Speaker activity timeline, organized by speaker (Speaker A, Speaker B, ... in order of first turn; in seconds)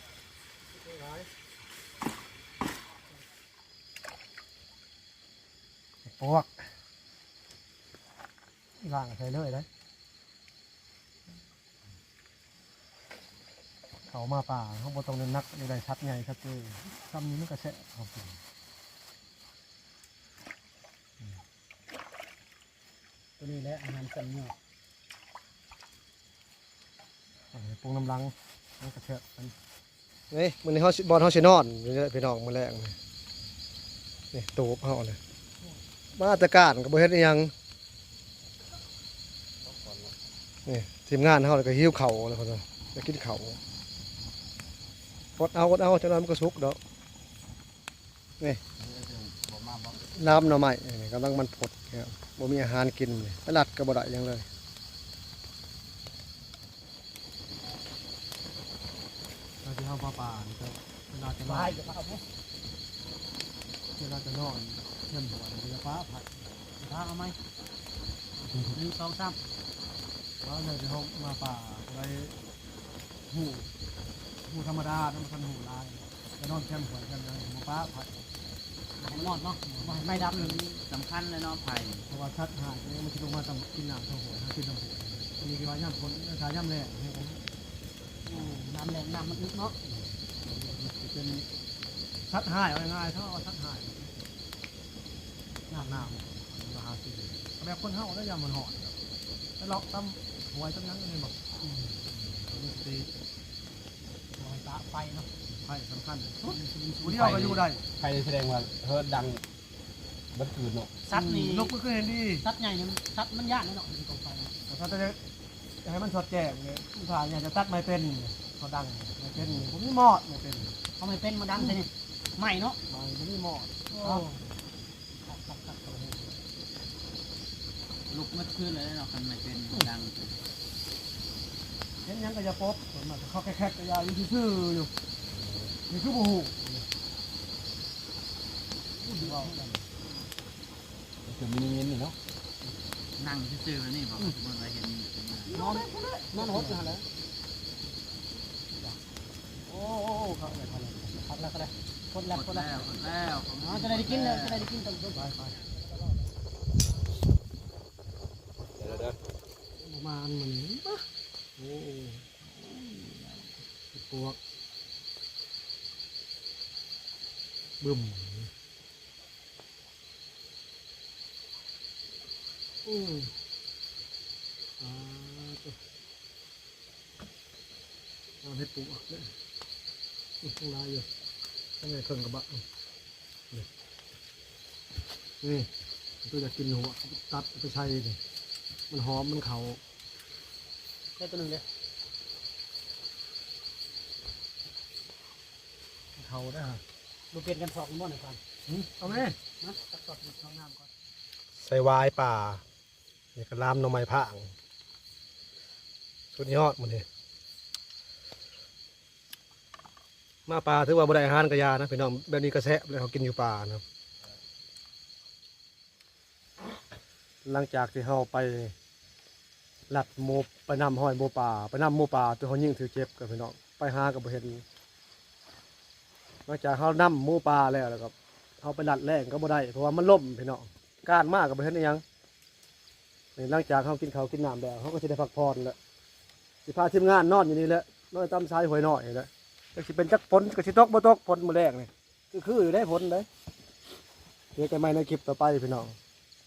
Speaker A: 0.7-1.3, 6.0-6.5, 8.8-9.7, 14.1-18.4, 27.5-29.5, 30.3-33.0, 34.3-35.2, 36.1-37.5, 40.6-43.6, 45.4-46.8, 50.1-54.5, 59.6-61.8, 64.0-66.3, 70.4-72.3, 73.3-73.7, 74.5-78.1, 80.0-80.6, 82.1-87.4, 92.2-94.1, 95.7-99.0, 99.6-101.4, 102.3-103.1, 105.6-107.8, 111.1-112.5, 114.7-115.2, 115.8-120.8, 122.9-124.2, 132.0-134.9, 135.9-136.8, 139.2-139.5, 145.5-146.9, 149.7-151.2, 155.1-155.5, 159.8-161.0, 161.6-163.2, 163.9-164.4, 167.8-168.5, 172.8-173.3, 174.8-175.8, 178.4-179.3, 180.4-181.1, 181.8-182.6, 185.4-185.7, 186.2-188.2, 188.9-189.8, 196.2-196.8, 198.7-199.4, 201.5-202.6, 203.3-204.5, 206.3-207.1, 210.5-213.8, 217.4-218.7, 219.9-224.6, 226.5-232.0, 233.3-235.8, 236.7-243.3, 244.5-246.0
Speaker B: 23.4-24.5, 61.5-62.2, 66.8-67.4, 68.5-69.4, 79.1-80.6, 88.2-89.8, 104.4-105.3, 106.4-107.5, 111.0-111.7, 112.4-114.5, 121.0-122.8, 123.9-124.4, 125.3-126.1, 139.1-139.7, 145.5-147.0, 151.2-152.8, 153.6-155.2, 191.2-191.6, 197.3-198.4, 199.1-200.3
Speaker C: 39.6-40.1, 48.8-50.1, 107.2-109.4, 110.3-110.9, 135.3-135.7, 141.2-142.2, 158.8-159.2
Speaker D: 79.1-82.1, 128.1-130.4, 143.2-145.6, 152.3-154.7